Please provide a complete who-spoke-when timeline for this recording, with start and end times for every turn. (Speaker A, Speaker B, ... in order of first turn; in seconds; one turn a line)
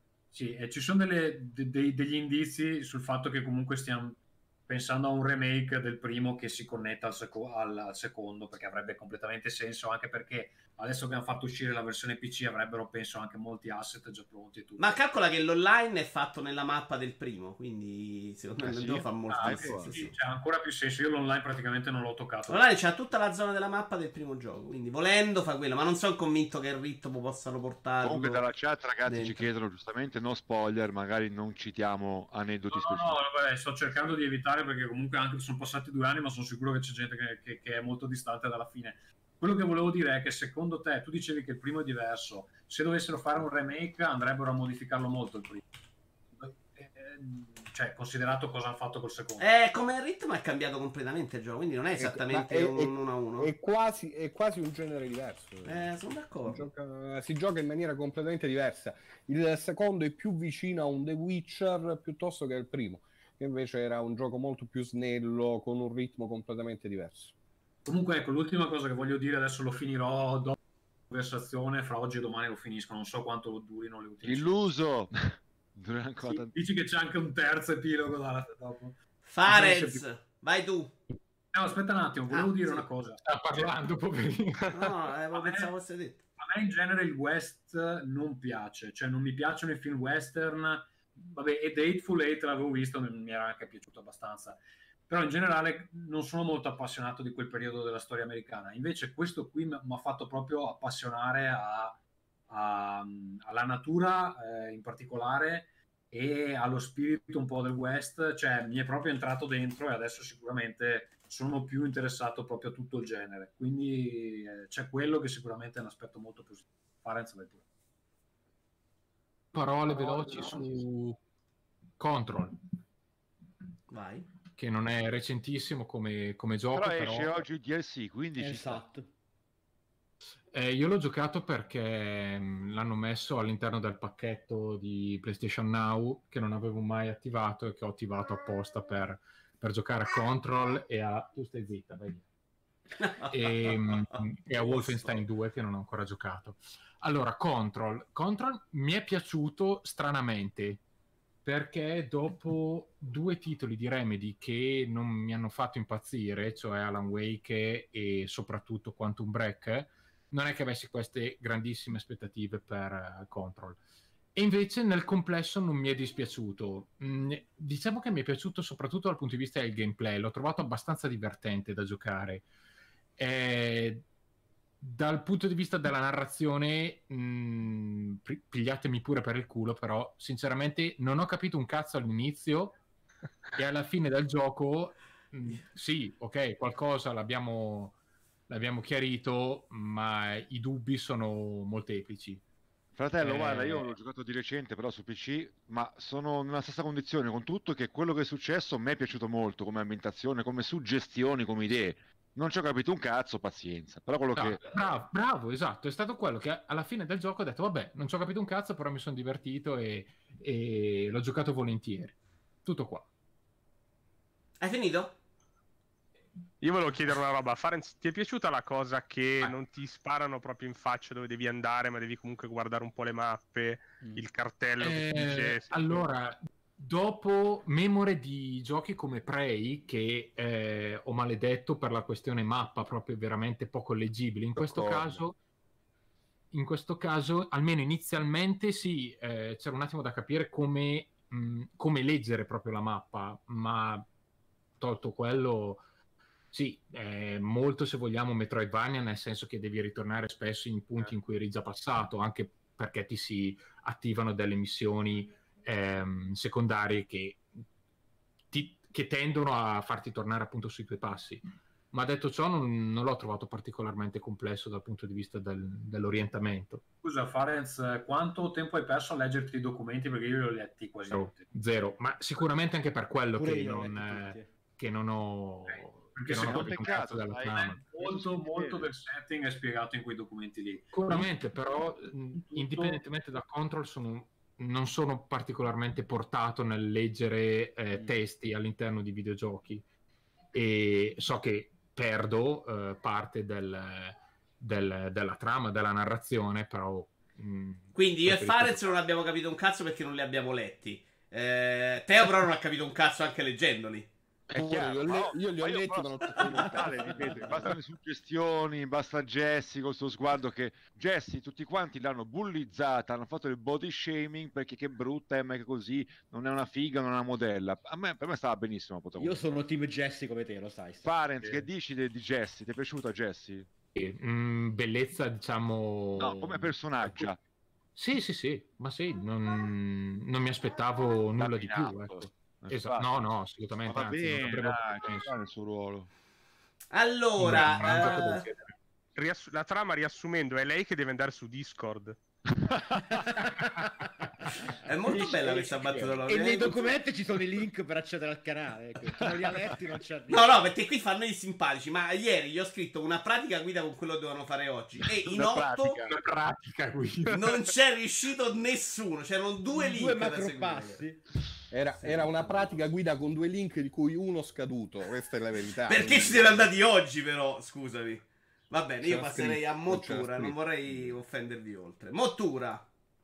Speaker A: 0.3-15.0
Speaker B: 14.8-20.1
Speaker C: 18.6-19.9
Speaker A: 19.3-22.6
Speaker B: 22.5-28.5
Speaker C: 28.0-33.2
Speaker B: 29.1-29.5
Speaker A: 32.7-45.6
Speaker A: 46.4-49.5
Speaker B: 49.4-53.5
Speaker D: 52.0-55.9
Speaker B: 55.6-56.6
Speaker D: 56.5-67.3
Speaker A: 67.8-70.6
Speaker A: 71.1-74.5
Speaker C: 74.2-76.5
Speaker A: 76.3-80.0
Speaker B: 79.3-81.0
Speaker A: 81.5-83.2
Speaker B: 82.3-82.9
Speaker E: 83.2-84.9
Speaker B: 84.7-86.2
Speaker A: 85.3-85.7
Speaker A: 86.4-102.0
Speaker A: 102.5-117.6
Speaker E: 119.5-121.2
Speaker E: 122.0-122.6
Speaker B: 123.9-124.3
Speaker E: 124.5-127.5
Speaker C: 126.7-128.8
Speaker F: 128.4-129.1
Speaker E: 130.5-142.2
Speaker B: 143.0-145.2
Speaker E: 143.2-150.8
Speaker E: 151.4-163.8
Speaker E: 164.3-172.5
Speaker E: 173.2-174.0
Speaker E: 174.8-182.8
Speaker E: 183.6-188.0
Speaker E: 188.5-192.4
Speaker C: 193.0-204.6
Speaker E: 193.2-193.9
Speaker E: 204.3-213.1
Speaker B: 214.6-215.2
Speaker G: 216.6-226.1
Speaker E: 224.8-235.4
Speaker C: 234.6-235.2
Speaker E: 236.5-244.1
Speaker E: 244.8-245.8
Speaker E: 246.5-257.4
Speaker E: 258.5-266.8
Speaker A: 267.0-271.5
Speaker E: 271.1-277.8
Speaker F: 273.3-274.5
Speaker A: 275.7-281.3
Speaker C: 276.2-278.9
Speaker E: 280.9-289.8
Speaker A: 282.3-283.0
Speaker E: 290.5-298.8
Speaker B: 297.9-304.1
Speaker C: 304.5-319.4
Speaker D: 304.6-307.5
Speaker F: 306.6-307.7
Speaker F: 319.2-321.1
Speaker C: 321.0-323.7
Speaker A: 321.4-321.7
Speaker E: 323.9-327.3
Speaker C: 326.2-327.4
Speaker E: 328.0-335.3
Speaker C: 331.4-333.2
Speaker C: 333.8-336.1
Speaker B: 336.9-338.5
Speaker E: 337.4-338.7
Speaker G: 339.2-342.2
Speaker F: 343.1-344.5
Speaker B: 344.8-346.9
Speaker E: 345.1-346.5
Speaker F: 346.3-350.7
Speaker B: 350.3-356.0
Speaker E: 355.1-357.7
Speaker B: 357.3-361.0
Speaker F: 359.7-361.2
Speaker D: 361.7-366.7
Speaker B: 365.9-372.9
Speaker D: 369.0-371.2